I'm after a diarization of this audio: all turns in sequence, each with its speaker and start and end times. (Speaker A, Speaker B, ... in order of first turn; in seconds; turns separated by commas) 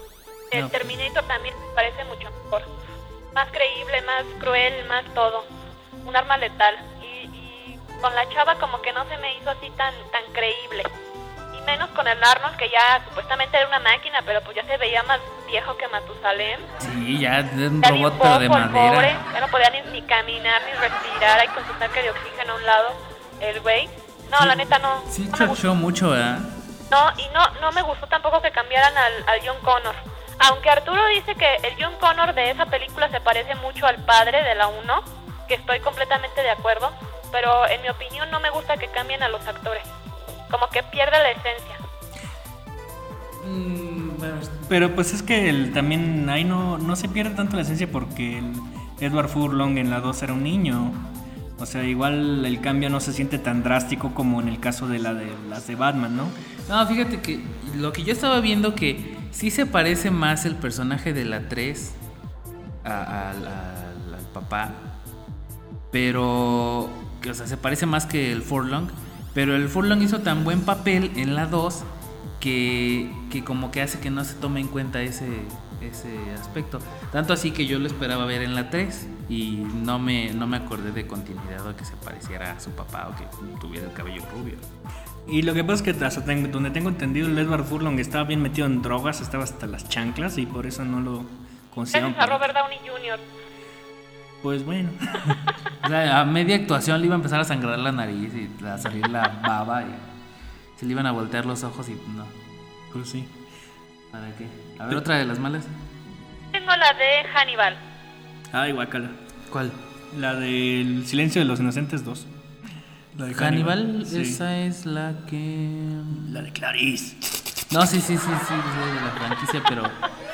Speaker A: 0.5-2.7, Speaker A: 3.3-5.5, Speaker A: 6.0-10.9, Speaker A: 11.5-16.7, Speaker B: 16.8-19.2, Speaker A: 17.8-25.6, Speaker B: 24.4-26.5, Speaker A: 26.9-39.9, Speaker A: 40.5-41.8, Speaker B: 43.4-44.6, Speaker C: 44.7-51.0, Speaker C: 51.6-56.3, Speaker B: 56.7-62.0, Speaker B: 62.8-64.9, Speaker B: 65.9-71.9, Speaker B: 72.4-84.6, Speaker C: 85.2-92.4, Speaker A: 91.9-93.2, Speaker C: 94.4-95.5, Speaker B: 95.8-100.0, Speaker B: 100.8-102.3, Speaker C: 102.9-103.3, Speaker B: 104.1-105.7, Speaker A: 106.5-107.8, Speaker C: 108.5-109.2, Speaker B: 109.5-109.8, Speaker C: 110.1-112.3, Speaker C: 113.1-114.4, Speaker B: 113.3-116.4, Speaker C: 116.1-117.2, Speaker B: 117.7-120.0